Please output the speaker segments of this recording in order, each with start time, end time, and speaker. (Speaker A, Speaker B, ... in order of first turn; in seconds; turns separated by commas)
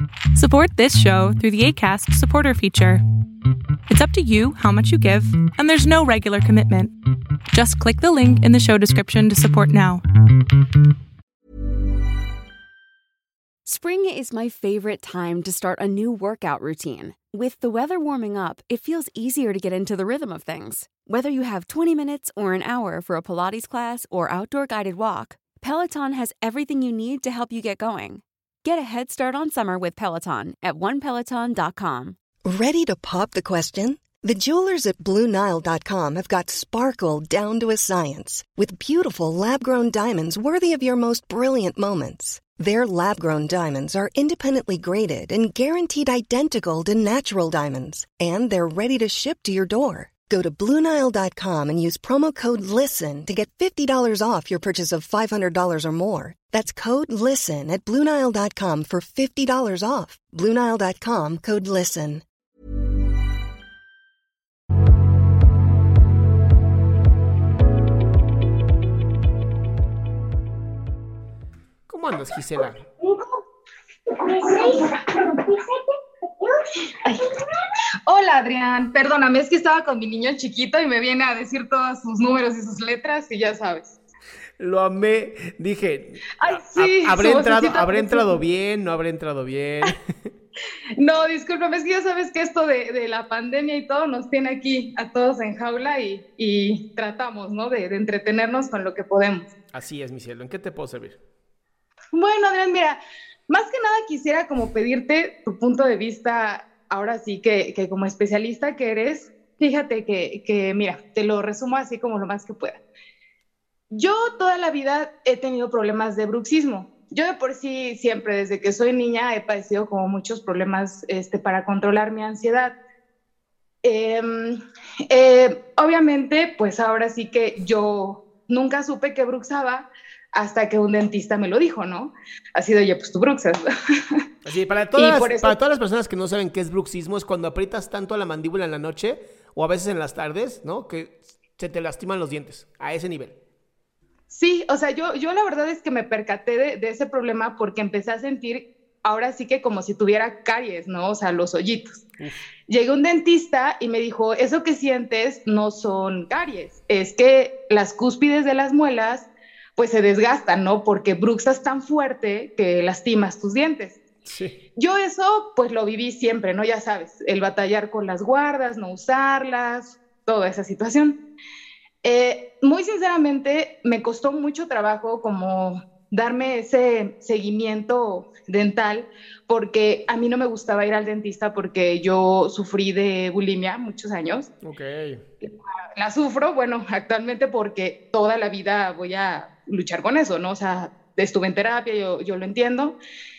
Speaker A: 0.3-3.0, Speaker A: 3.9-6.9, Speaker A: 7.5-10.0, Speaker B: 13.7-32.2, Speaker C: 32.5-62.2, Speaker D: 71.9-72.8, Speaker E: 74.1-75.8, Speaker E: 78.1-84.0, Speaker D: 84.6-90.0, Speaker E: 86.4-88.4, Speaker E: 91.0-99.5, Speaker D: 99.7-101.2, Speaker E: 102.1-112.8, Speaker E: 113.9-122.8, Speaker E: 123.8-134.2, Speaker D: 134.4-143.4, Speaker E: 135.0-135.6, Speaker E: 144.3-152.0, Speaker D: 152.2-152.4, Speaker E: 152.7-164.0, Speaker D: 164.2-164.6, Speaker E: 164.8-171.2, Speaker E: 172.0-184.5, Speaker D: 184.6-185.2, Speaker E: 185.4-193.0